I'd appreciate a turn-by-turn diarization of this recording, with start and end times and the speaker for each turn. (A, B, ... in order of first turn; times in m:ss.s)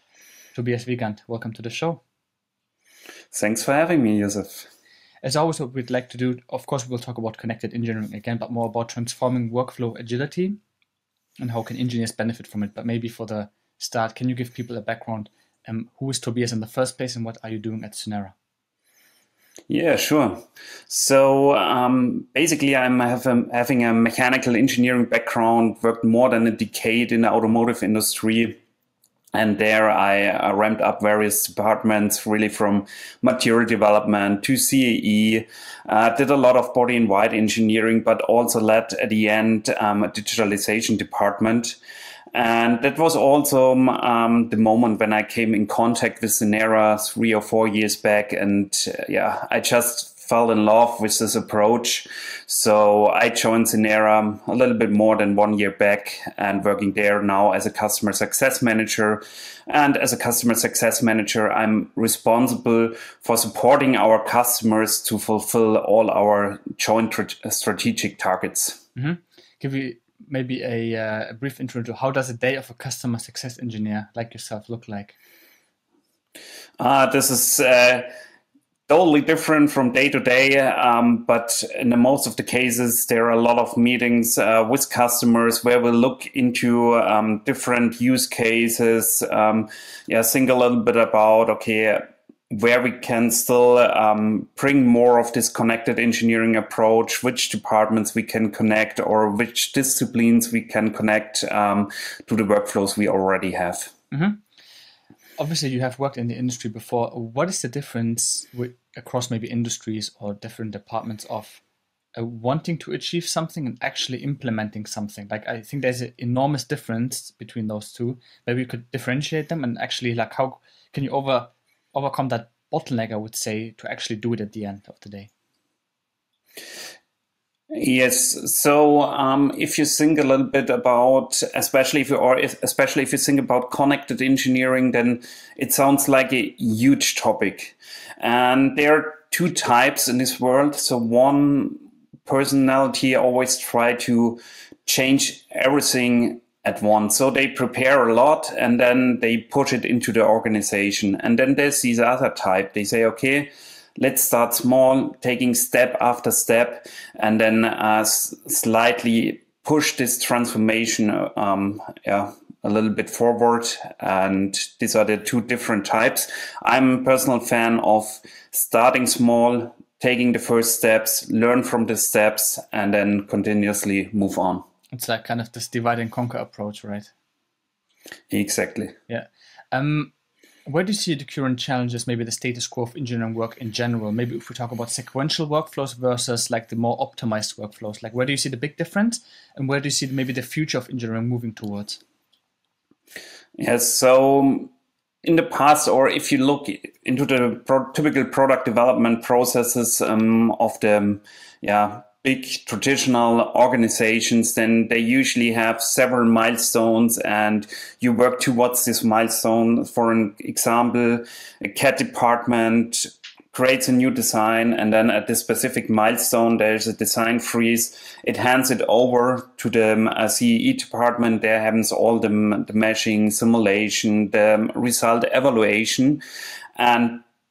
0:00.5-0:02.0 A
0:03.3-0:04.7 B
0:05.2-0:10.6 A
0:11.4-0:18.3 A
0:19.7-0:28.6 B
0:29.3-0:41.8 B
0:42.3-1:08.8 B
1:08.9-1:15.2 A
1:16.8-1:18.1 B
1:18.9-1:43.9 B
1:44.1-1:44.4 A
1:45.4-1:51.6 A
1:52.2-2:05.3 A
2:07.7-2:54.6 B
2:54.9-2:57.1 A
2:58.3-2:59.0 B
2:59.1-3:00.1 A
3:00.6-3:12.0 A
3:13.6-3:14.7 B
3:15.2-3:46.2 B
3:46.8-3:47.2 B